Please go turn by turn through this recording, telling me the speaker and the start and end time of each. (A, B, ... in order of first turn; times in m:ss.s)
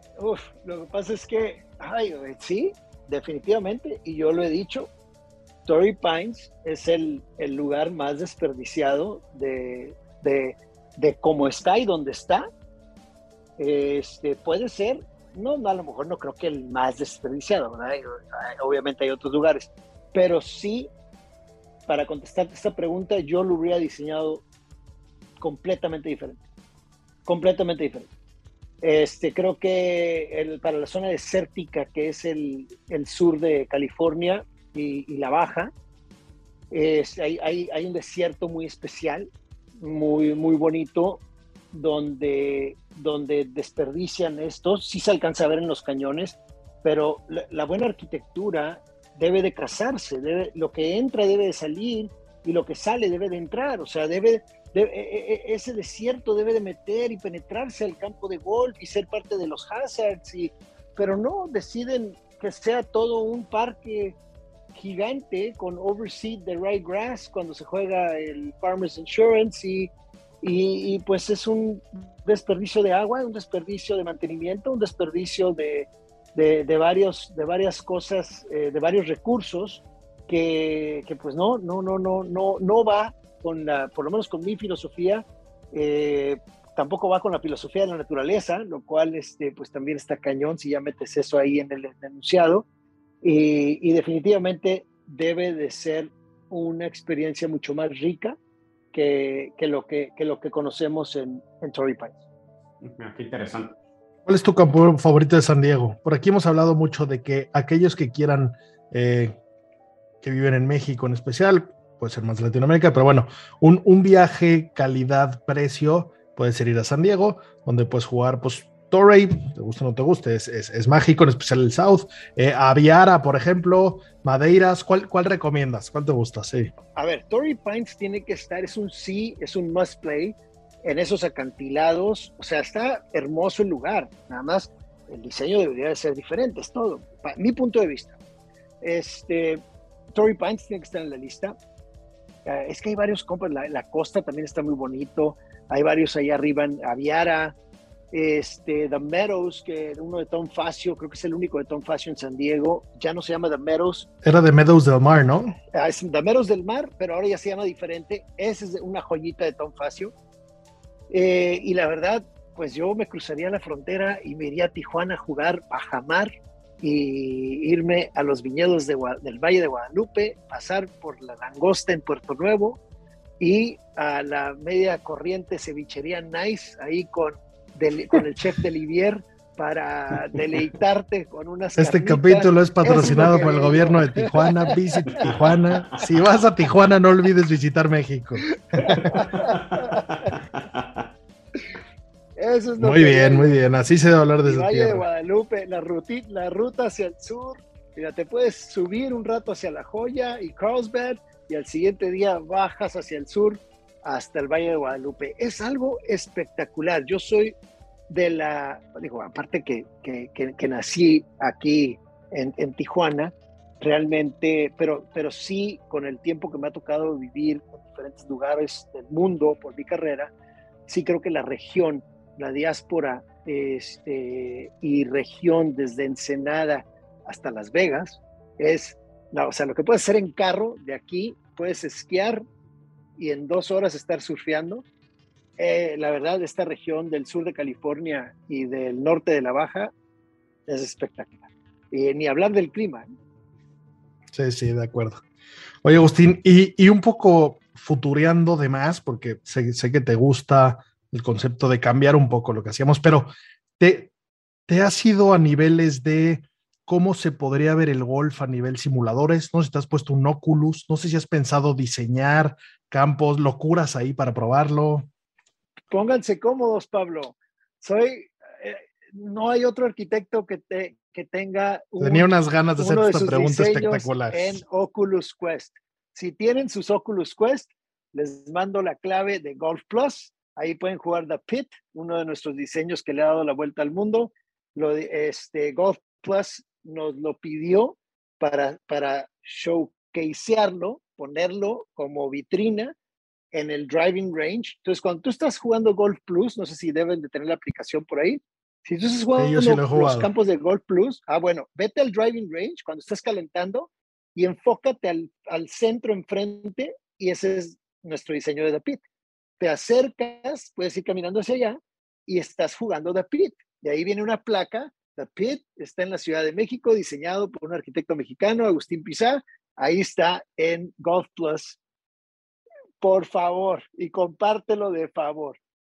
0:00.2-0:04.9 A
0:05.6-0:12.5 A
0:13.6-0:20.9 A
0:21.9-0:24.4 A
0:25.4-0:26.4 A
0:27.2-0:28.1 A
0:28.8-0:35.7 A
0:36.7-1:04.2 A
1:04.7-1:32.6 A
1:33.2-1:38.4 A
1:38.9-1:42.2 A
1:42.8-1:43.7 B
1:44.2-1:49.4 C
1:50.2-2:06.7 C
2:07.0-2:18.2 A
2:18.8-2:19.6 A
2:20.1-2:21.6 A
2:22.4-2:27.6 A
2:28.1-2:34.1 A
2:34.2-2:35.6 C
2:35.7-2:40.1 A
2:41.1-2:52.8 A
2:53.4-3:05.3 A
3:01.8-3:09.2 C
3:08.8-3:10.0 A
3:08.9-3:11.1 B
3:12.4-3:13.6 A
3:12.8-3:15.1 C
3:14.4-3:27.6 A
3:28.1-3:40.3 A
3:40.9-3:52.4 A
3:53.2-3:54.8 A
3:55.6-3:59.9 A
4:00.7-4:03.1 A
4:04.3-4:05.2 C
4:05.8-4:14.1 C
4:14.7-4:25.1 C
4:25.9-4:52.9 A
4:32.0-4:34.6 C
4:53.5-5:09.0 A
4:59.3-5:00.3 C
5:09.6-5:21.8 A
5:23.0-5:25.6 A